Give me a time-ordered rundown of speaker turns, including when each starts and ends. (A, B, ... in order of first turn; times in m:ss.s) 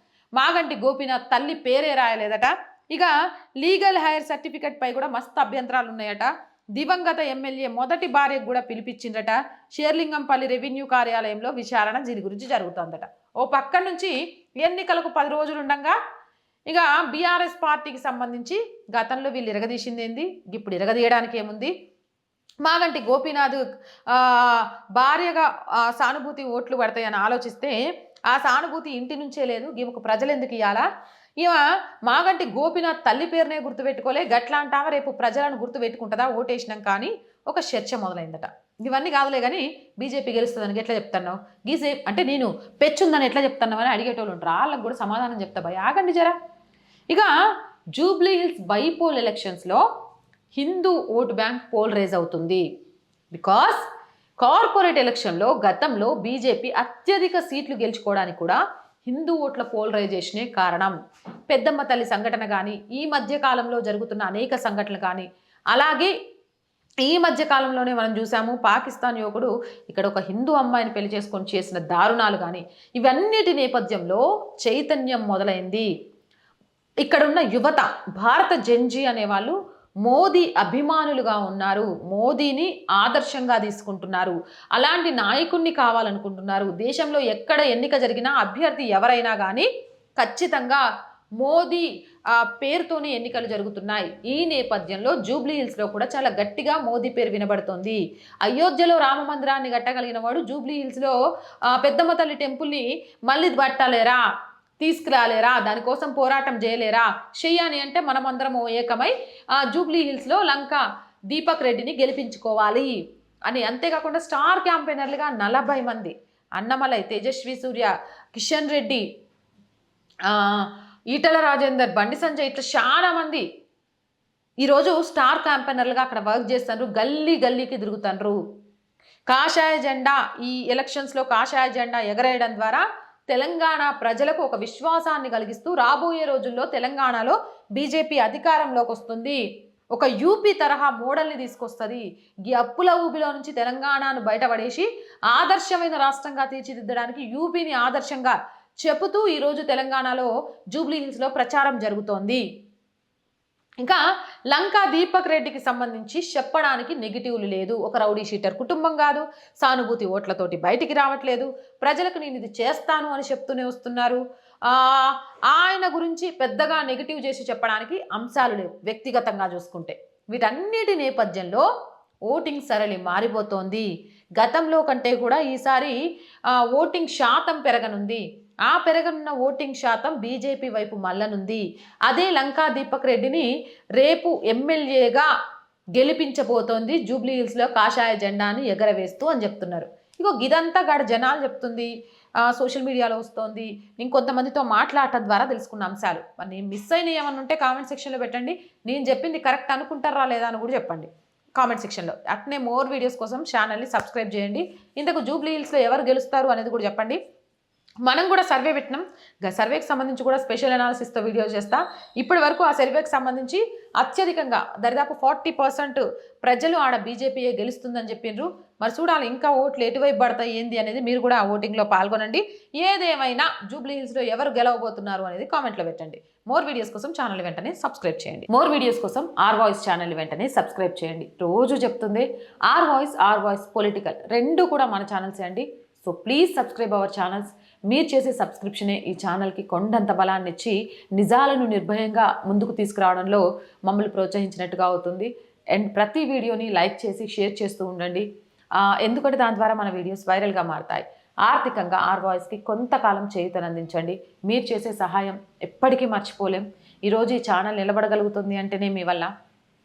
0:00.4-0:16.0 A
0:16.7-0:21.7 A
0:22.6-0:27.8 A
0:28.3-0:30.8 A
0:31.4-0:46.4 A
0:47.9-0:49.8 A
0:50.5-0:52.6 A
0:53.3-0:53.8 A
0:54.4-1:01.0 A
1:01.5-1:06.1 A
1:07.0-1:15.9 A
1:17.0-1:30.8 A
1:31.4-1:41.2 A
1:41.7-1:44.2 A
1:44.8-1:59.0 A
2:00.2-2:03.4 A
2:04.6-2:08.4 A
2:09.3-2:19.4 A
2:19.9-2:32.4 A
2:33.8-2:51.7 A
2:52.3-2:56.0 A
2:56.5-3:05.3 A
3:06.0-3:11.9 A
3:12.4-3:27.2 A
3:28.0-4:08.2 A
4:08.8-4:19.3 A